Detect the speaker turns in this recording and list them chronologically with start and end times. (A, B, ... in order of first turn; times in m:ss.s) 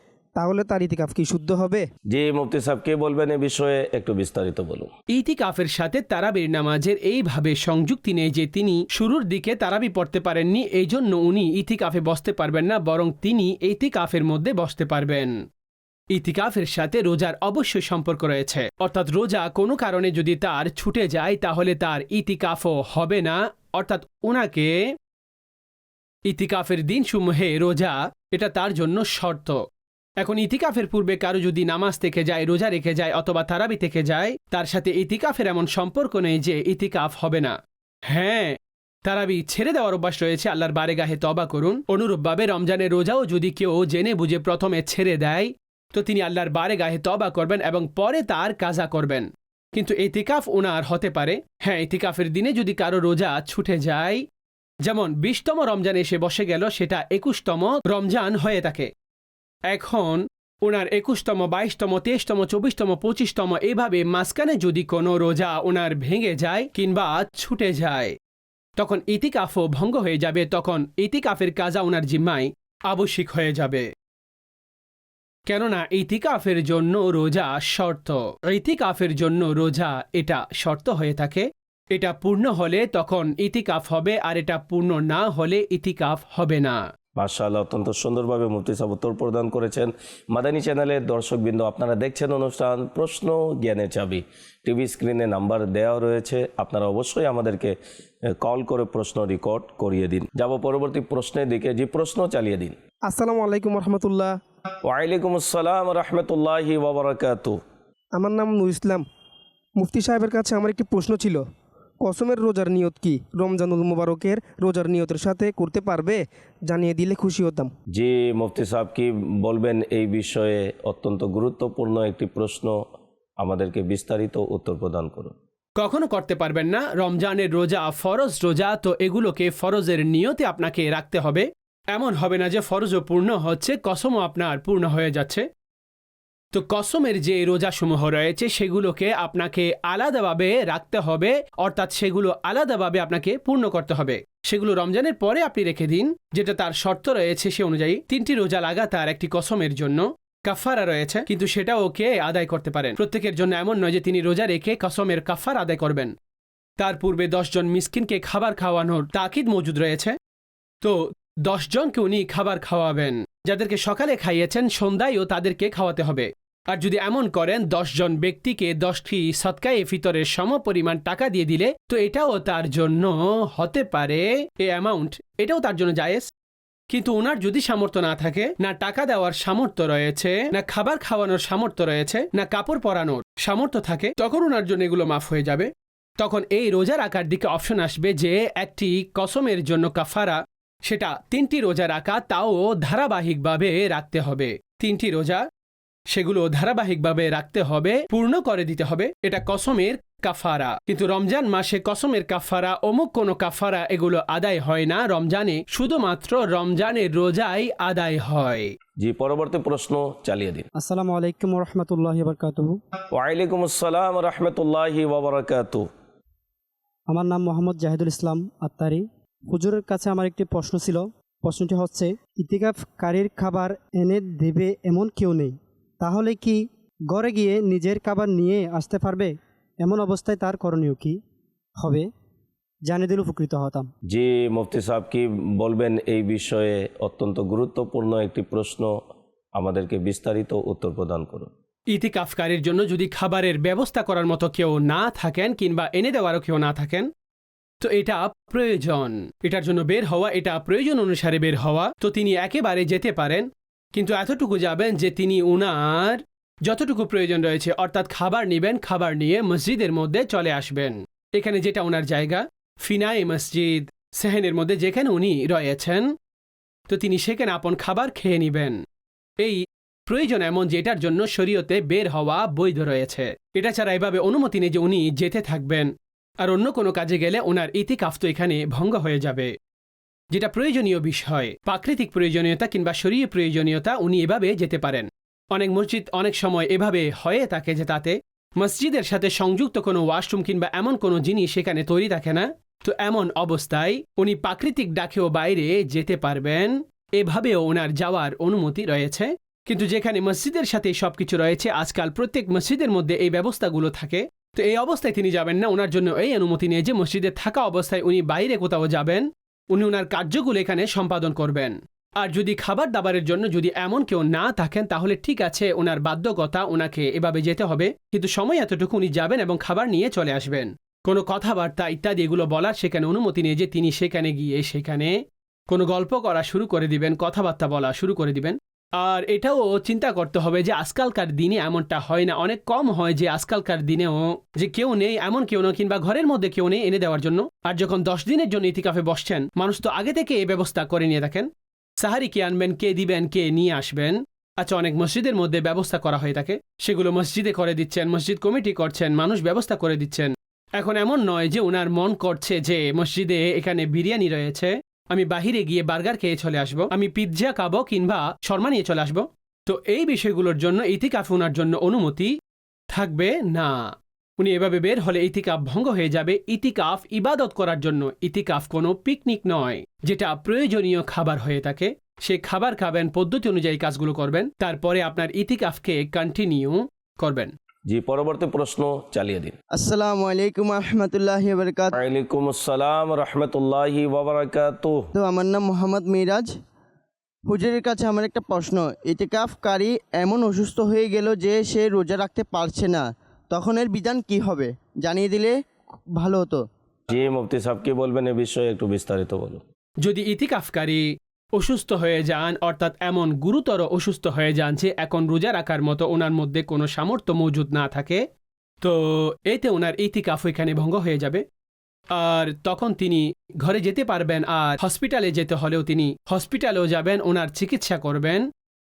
0:00.4-0:01.8 A
0:02.1-0:04.9 B
0:05.1-0:15.3 C
0:16.1-0:24.8 C
0:26.3-0:29.6 C
0:30.2-0:37.6 C
0:38.1-0:54.2 C
0:54.8-0:58.9 C
0:59.7-1:08.1 C
1:08.8-1:13.9 C
1:15.5-1:26.8 C
1:27.2-1:37.8 B
1:38.3-1:42.8 B
1:43.1-1:44.3 A
1:44.8-1:47.6 B
1:48.2-1:49.0 A
1:49.8-1:51.4 A
1:52.0-1:57.7 A
1:57.9-2:02.8 B
2:03.4-2:05.3 B
2:05.8-2:15.4 C
2:16.5-2:36.1 C
2:36.8-2:40.2 C
2:40.8-2:56.3 C
2:56.9-3:05.7 C
3:06.2-3:15.4 C
3:16.1-3:28.7 C
3:29.0-3:30.6 B
3:30.8-3:32.8 D
3:33.1-3:35.9 B
3:37.1-3:51.2 D
3:51.8-3:52.1 D
3:52.9-3:53.9 D
3:54.1-3:58.9 B
3:59.6-4:01.5 B
4:01.9-4:07.1 C
4:07.8-4:26.1 C
4:26.9-4:28.8 C
4:29.4-4:39.5 C
4:40.3-5:25.1 C
5:25.7-5:41.5 C
5:42.0-6:02.3 C
6:02.9-6:17.5 C
6:17.9-6:19.5 B
6:19.8-6:22.0 E
6:21.9-6:25.1 B
6:25.2-6:26.5 E
6:27.4-6:35.6 E
6:36.2-6:36.6 E
6:37.1-6:39.6 B
6:40.0-6:48.2 C
6:48.8-6:51.4 C
6:52.1-6:58.4 C